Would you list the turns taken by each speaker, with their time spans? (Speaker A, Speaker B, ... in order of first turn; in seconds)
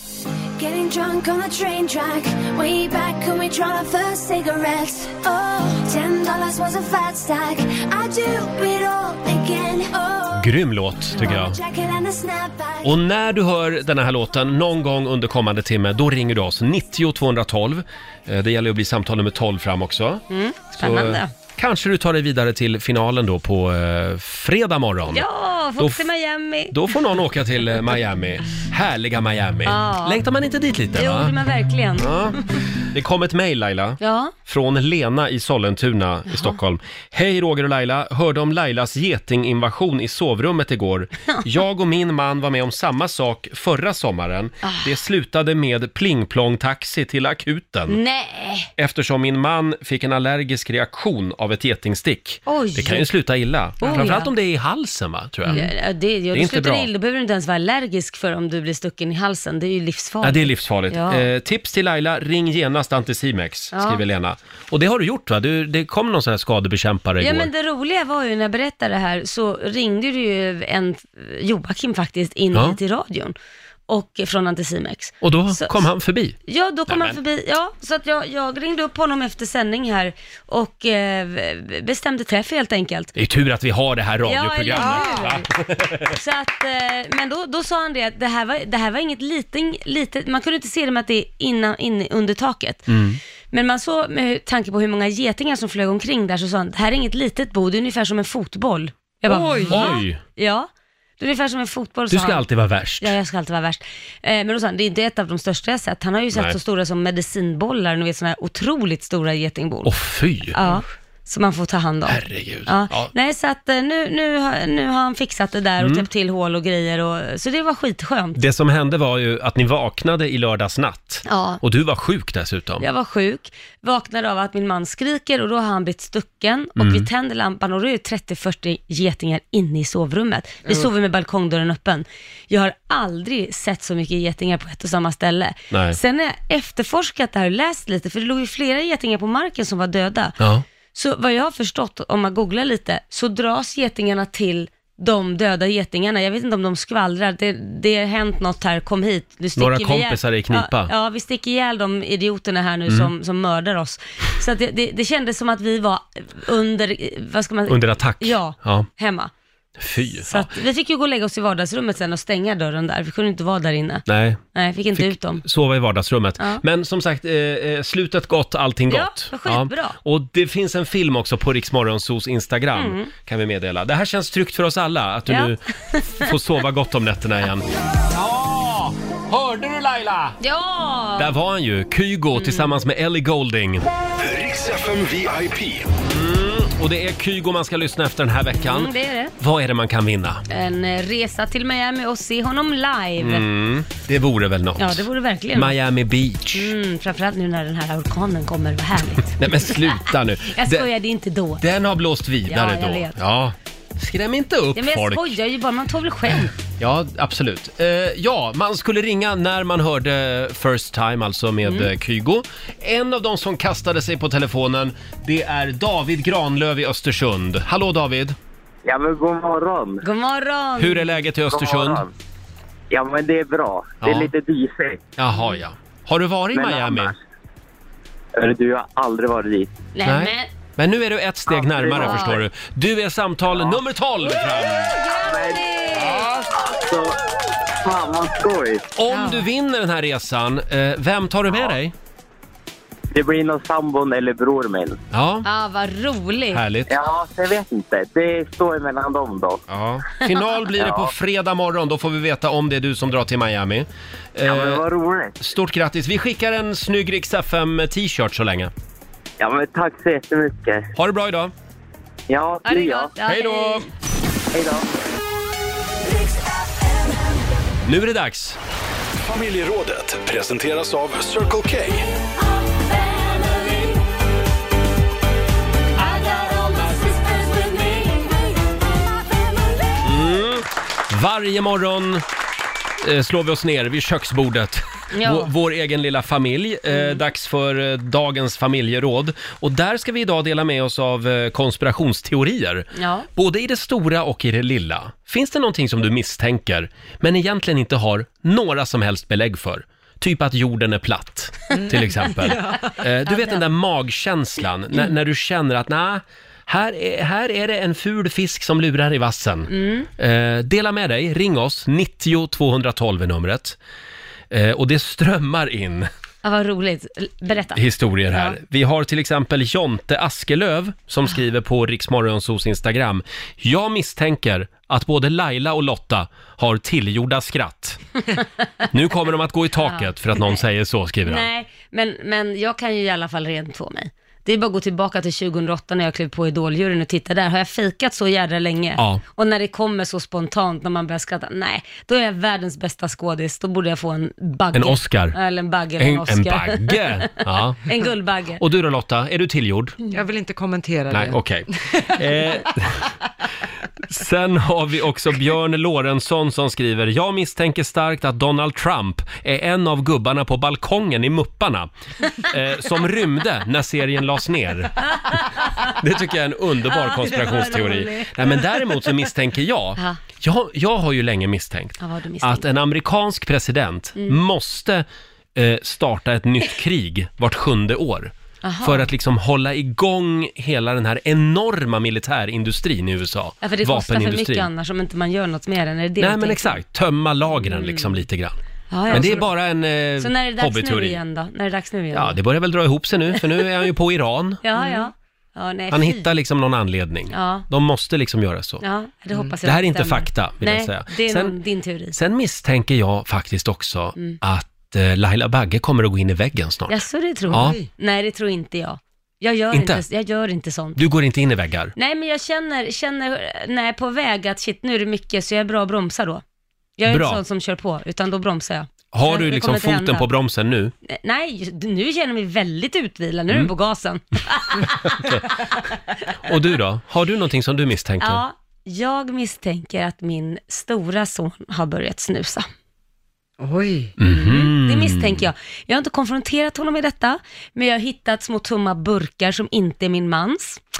Speaker A: 0.6-10.6, 11.2-12.9, 266.1-267.2, 272.7-274.0, 276.0-278.8
Speaker B: 10.3-11.6, 12.8-20.2, 20.8-25.2, 25.8-26.1, 26.7-31.3, 32.0-32.4, 32.9-48.0, 48.8-55.7, 56.3-56.9, 60.2-67.5, 75.2-76.3, 76.9-77.2, 83.2-86.2, 92.9-93.2, 99.7-100.2, 102.1-103.1, 109.8-110.6, 112.1-113.1, 115.8-116.0, 118.4-122.8, 126.8-127.1, 135.7-136.0, 149.6-150.9, 157.7-158.9, 159.8-160.5, 164.1-164.4, 164.9-175.6, 176.2-180.4, 181.2-183.9, 186.0-190.4, 193.2-196.7, 199.4-200.9, 201.6-205.3, 206.8-218.3, 220.8-222.0, 224.0-224.3, 225.2-227.1, 230.0-234.9, 235.9-236.5, 238.9-241.9, 245.1-245.4, 246.5-246.9, 249.7-254.8, 255.4-258.7, 260.9-261.5, 263.2-263.9, 267.8-268.6, 280.0-282.2, 283.0-313.8, 314.5-316.1, 317.7-328.0, 328.9-331.5, 344.7-345.4, 346.0-347.9, 348.6-350.0, 351.1-353.1, 354.1-365.1, 365.8-384.7, 386.2-388.6, 389.1-391.2, 392.1-394.6, 395.9-398.8, 399.6-401.6, 402.1-407.8, 409.7-410.0, 410.9-411.9, 417.1-417.4, 419.1-420.9, 425.1-425.4, 426.4-428.4, 434.2-435.5
Speaker C: 20.3-21.3, 25.1-26.9, 29.6-30.2, 30.9-32.4, 34.0-34.3, 36.3-36.6, 44.6-44.9, 47.9-48.7, 52.5-53.1, 53.8-54.3, 55.5-61.3, 63.7-64.0, 67.2-73.3, 73.9-75.8, 76.5-83.1, 84.2-85.5, 86.0-92.9, 93.5-102.5, 103.0-109.9, 110.5-118.4, 121.2-121.6, 122.8-140.4, 140.9-159.3, 160.2-165.4, 168.9-170.0, 172.7-173.1, 175.3-176.3, 180.4-181.3, 182.3-182.8, 188.6-189.3, 190.5-193.4, 194.8-195.8, 196.5-201.6, 202.5-203.2, 204.8-206.5, 211.6-211.9, 220.0-221.3, 229.9-230.5, 231.9-232.4, 234.4-236.3, 239.1-239.5, 245.4-246.6, 262.6-263.9, 285.1-285.5, 286.9-287.2, 292.9-293.3, 303.2-303.6, 309.7-310.1, 316.4-318.6, 329.8-330.6, 331.2-347.3, 347.9-348.6, 365.2-365.9, 366.9-368.9, 372.0-372.6, 378.6-379.1, 383.6-386.8, 387.6-388.2, 388.9-389.5, 390.2-392.4, 394.6-396.3, 397.3-397.7, 398.8-402.2, 406.9-411.0, 411.9-416.4, 417.0-420.3, 421.1-425.3, 428.2-432.7, 434.3-440.8
Speaker D: 84.7-85.3, 99.3-99.9, 302.4-302.8, 350.1-352.6, 389.1-389.4, 394.8-395.1, 407.5-407.9, 433.6-434.1
Speaker E: 184.2-185.9, 269.2-272.1
Speaker F: 218.8-220.0, 221.5-222.1, 222.9-225.0, 226.5-227.2, 228.3-229.7, 231.5-232.4, 233.5-233.8, 235.2-237.2, 237.8-238.9, 243.1-245.0, 246.9-249.6, 250.8-251.1, 254.4-255.3, 259.4-260.9, 262.3-263.1, 264.5-264.8